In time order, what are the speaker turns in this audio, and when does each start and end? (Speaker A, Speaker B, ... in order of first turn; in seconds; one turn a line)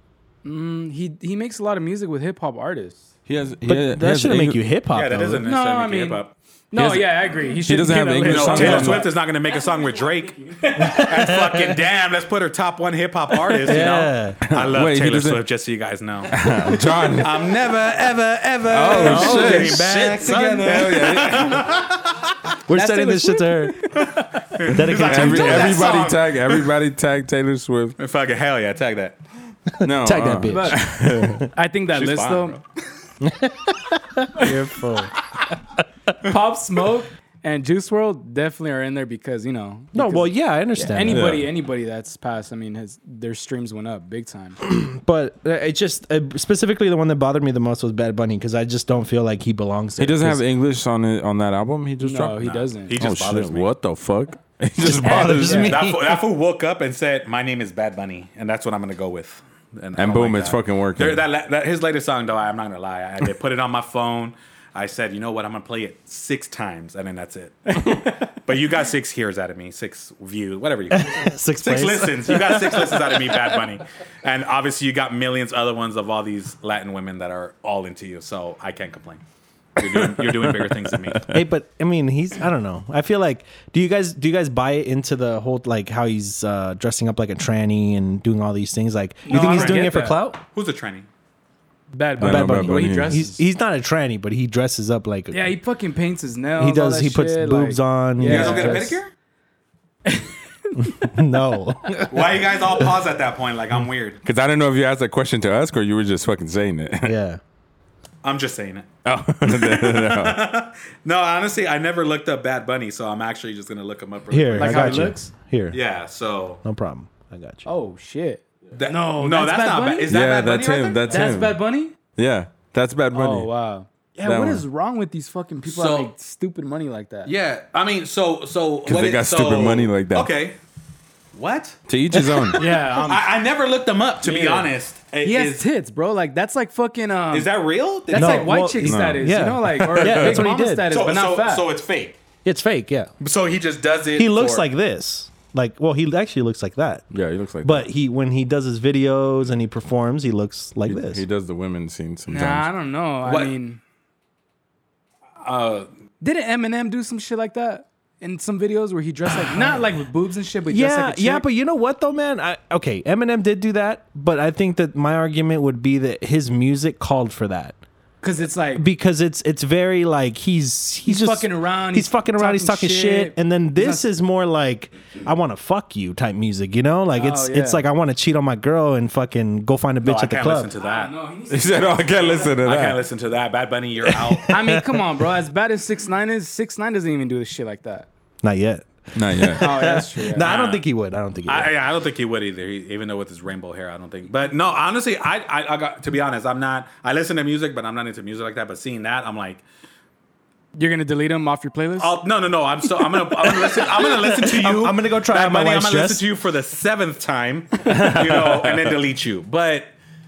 Speaker A: 0.4-3.0
Speaker B: 3.3-4.6
Speaker C: 3.6-5.5
Speaker D: 4.9-6.3
Speaker A: 5.4-6.2
Speaker A: 6.7-9.2
Speaker B: 6.8-9.1
Speaker D: 8.2-16.5
Speaker A: 10.4-11.4
Speaker C: 10.8-11.8
Speaker C: 13.6-14.4
Speaker B: 14.5-15.4
Speaker B: 16.3-17.3
Speaker D: 17.0-22.2
Speaker B: 18.7-19.8
Speaker C: 18.9-21.0
Speaker B: 20.5-21.7
Speaker C: 22.7-23.8
Speaker A: 22.7-24.5
Speaker D: 24.0-26.7
Speaker C: 24.7-26.0
Speaker B: 24.8-28.0
Speaker D: 28.0-29.2
Speaker C: 29.7-31.5
Speaker B: 29.8-31.4
Speaker A: 30.5-30.9
Speaker A: 31.5-32.6
Speaker D: 31.9-32.6
Speaker C: 33.2-35.1
Speaker A: 36.2-44.6
Speaker C: 39.9-41.3
Speaker B: 41.1-41.5
Speaker C: 44.6-50.4
Speaker B: 50.0-52.4
Speaker A: 52.0-53.0
Speaker D: 52.4-53.7
Speaker B: 53.0-55.7
Speaker C: 54.8-56.2
Speaker A: 54.9-55.8
Speaker D: 55.5-79.2
Speaker B: 60.0-61.2
Speaker A: 67.8-68.1
Speaker C: 70.9-73.2
Speaker D: 79.8-81.3
Speaker B: 79.8-81.4
Speaker C: 81.3-90.4
Speaker A: 89.3-90.2
Speaker D: 89.3-91.1
Speaker A: 91.9-93.4
Speaker B: 92.2-93.2
Speaker C: 92.2-95.5
Speaker A: 95.3-99.0
Speaker C: 96.6-99.0
Speaker D: 98.2-99.1
Speaker A: 100.0-101.1
Speaker C: 100.8-102.9
Speaker D: 102.1-104.2
Speaker B: 104.2-107.2
Speaker C: 107.0-107.4
Speaker D: 108.2-108.9
Speaker B: 109.0-110.4
Speaker D: 109.5-115.2
Speaker C: 114.3-115.8
Speaker A: 114.6-115.3
Speaker D: 115.7-116.6
Speaker C: 116.6-117.7
Speaker A: 117.7-120.2
Speaker D: 118.7-121.3
Speaker B: 120.1-121.6
Speaker A: 121.1-121.9
Speaker B: 122.2-123.5
Speaker A: 123.1-127.3
Speaker B: 124.2-124.6
Speaker D: 125.7-126.1
Speaker D: 127.2-130.6
Speaker B: 128.9-130.3
Speaker D: 131.3-135.7
Speaker B: 131.9-132.6
Speaker A: 132.5-133.2
Speaker A: 134.2-134.7
Speaker A: 135.2-137.5
Speaker D: 137.3-138.6
Speaker A: 138.1-141.7
Speaker C: 138.1-140.9
Speaker B: 138.8-140.5
Speaker D: 140.9-142.2
Speaker C: 142.4-143.1
Speaker D: 143.2-144.7
Speaker C: 144.2-147.1
Speaker B: 147.1-147.9
Speaker C: 147.6-151.2
Speaker B: 150.9-152.7
Speaker A: 152.3-153.8
Speaker D: 153.3-153.5
Speaker D: 155.4-155.9
Speaker A: 156.2-161.5
Speaker C: 160.7-167.8
Speaker A: 168.2-168.9
Speaker C: 168.8-180.7
Speaker A: 171.1-174.1
Speaker A: 177.1-177.8
Speaker D: 180.0-181.1
Speaker A: 180.8-182.5
Speaker B: 181.5-183.0
Speaker D: 182.5-184.6
Speaker C: 184.3-184.8
Speaker A: 184.5-188.1
Speaker C: 188.4-191.7
Speaker B: 189.1-189.7
Speaker A: 189.6-190.5
Speaker D: 190.4-190.8
Speaker D: 191.5-199.6
Speaker A: 200.8-202.1
Speaker D: 202.0-209.9
Speaker C: 203.4-206.3
Speaker C: 207.9-208.5